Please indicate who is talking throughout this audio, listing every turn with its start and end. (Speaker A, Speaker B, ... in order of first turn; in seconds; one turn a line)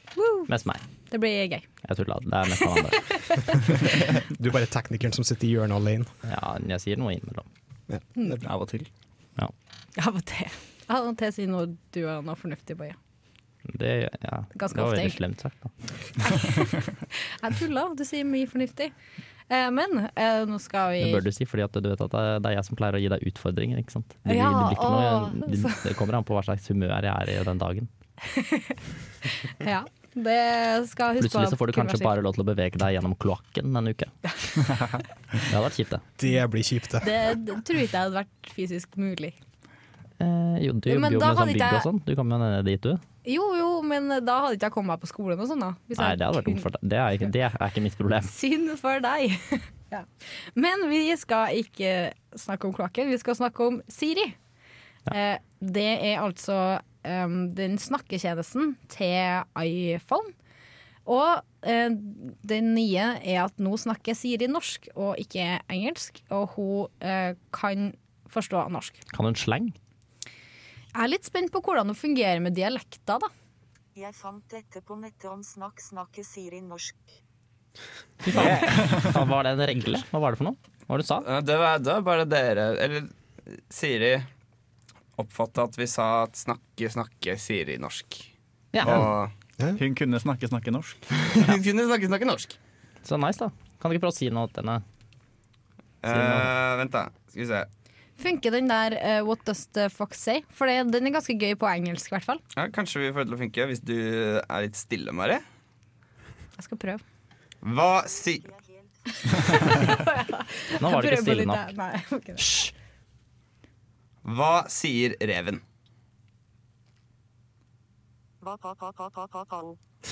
Speaker A: 0.1-0.5
Speaker B: 0.5-0.8
Speaker A: 1.1-1.7
Speaker B: 1.8-3.4
Speaker A: 2.9-3.6
Speaker C: 4.3-6.1
Speaker B: 6.2-7.5
Speaker C: 7.9-8.3
Speaker D: 8.4-8.9
Speaker A: 10.0-12.9
Speaker B: 13.7-15.7
Speaker A: 14.5-15.2
Speaker A: 16.2-18.9
Speaker A: 19.5-21.2
Speaker B: 21.0-27.9
Speaker A: 24.2-25.8
Speaker A: 28.2-32.1
Speaker B: 31.2-34.3
Speaker D: 34.6-35.0
Speaker B: 35.4-36.0
Speaker C: 36.2-37.1
Speaker A: 37.0-39.4
Speaker B: 40.2-43.0
Speaker A: 40.9-41.9
Speaker A: 43.2-46.6
Speaker B: 46.0-48.3
Speaker A: 48.3-54.4
Speaker A: 55.1-60.3
Speaker A: 61.0-69.0
Speaker B: 69.1-69.7
Speaker A: 70.9-73.3
Speaker E: 74.0-77.0
Speaker B: 78.2-81.2
Speaker D: 78.3-79.2
Speaker F: 81.2-84.2
Speaker F: 85.2-88.3
Speaker B: 88.7-89.1
Speaker F: 88.8-89.3
Speaker D: 89.7-91.1
Speaker F: 91.1-92.6
Speaker B: 93.0-94.8
Speaker F: 96.0-97.7
Speaker B: 96.1-96.5
Speaker A: 98.2-102.4
Speaker F: 102.5-105.4
Speaker A: 106.6-107.0
Speaker F: 107.6-108.4
Speaker E: 108.4-108.9
Speaker A: 109.2-112.6
Speaker B: 110.8-111.7
Speaker B: 112.4-112.7
Speaker F: 114.2-115.6
Speaker E: 118.4-119.8